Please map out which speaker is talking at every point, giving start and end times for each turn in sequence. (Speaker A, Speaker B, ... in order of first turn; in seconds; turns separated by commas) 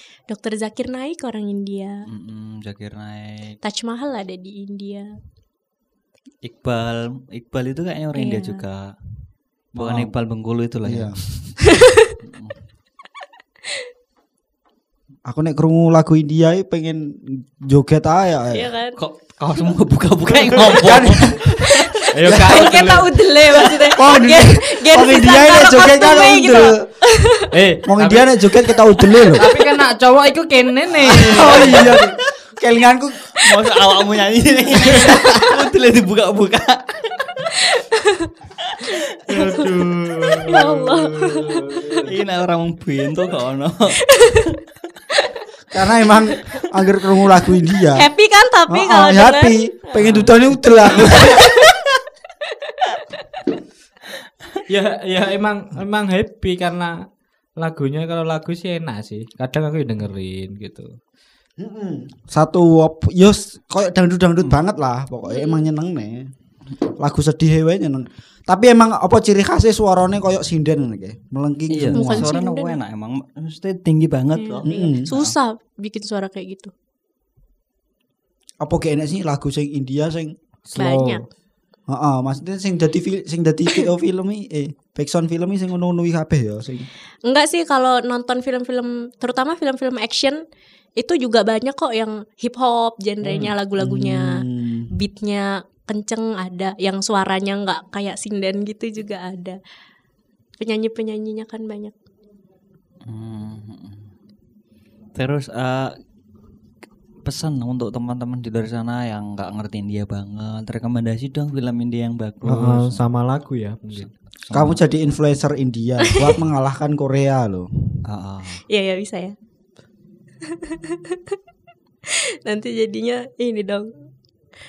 Speaker A: 0.3-2.0, Speaker B: 2.1-3.6, Speaker A: 3.6-5.1, Speaker B: 6.4-8.9, Speaker A: 8.1-8.6, Speaker C: 9.7-10.1, Speaker B: 9.7-11.7, Speaker C: 10.8-11.2, Speaker B: 12.2-12.6, Speaker C: 15.2-18.7, Speaker A: 18.5-18.9, Speaker B: 19.0-21.8, Speaker C: 20.8-22.7, Speaker D: 22.1-23.2, Speaker A: 22.4-27.5, Speaker C: 23.9-26.9, Speaker D: 27.5-28.2, Speaker C: 27.8-29.4, Speaker D: 29.3-32.0, Speaker B: 30.9-32.3, Speaker C: 31.0-33.7, Speaker B: 33.4-37.4, Speaker C: 34.9-35.6, Speaker A: 37.5-38.3, Speaker D: 39.3-42.1, Speaker A: 39.3-39.6, Speaker A: 40.4-42.0, Speaker B: 42.0-44.0, Speaker A: 44.1-44.5, Speaker A: 45.1-45.5, Speaker C: 45.7-48.1, Speaker A: 48.0-49.5, Speaker C: 48.7-51.8, Speaker B: 50.0-50.4, Speaker A: 50.8-51.7, Speaker A: 52.7-53.2, Speaker D: 54.7-61.0, Speaker C: 61.6-66.3, Speaker A: 65.3-65.7, Speaker C: 66.9-72.3, Speaker B: 71.7-75.3, Speaker A: 71.9-72.8, Speaker A: 74.4-76.7, Speaker C: 74.7-75.1, Speaker C: 78.6-80.3, Speaker D: 80.7-81.2, Speaker A: 80.8-81.2, Speaker C: 81.9-86.9, Speaker A: 87.2-90.4, Speaker A: 91.0-99.6, Speaker C: 93.8-94.9, Speaker A: 100.6-101.9, Speaker B: 103.0-104.1, Speaker B: 105.1-105.9, Speaker B: 107.2-113.0, Speaker D: 112.4-114.1, Speaker B: 113.9-114.8, Speaker C: 114.5-118.0, Speaker B: 118.0-118.6, Speaker A: 118.7-119.3, Speaker A: 120.5-121.4, Speaker A: 122.5-123.9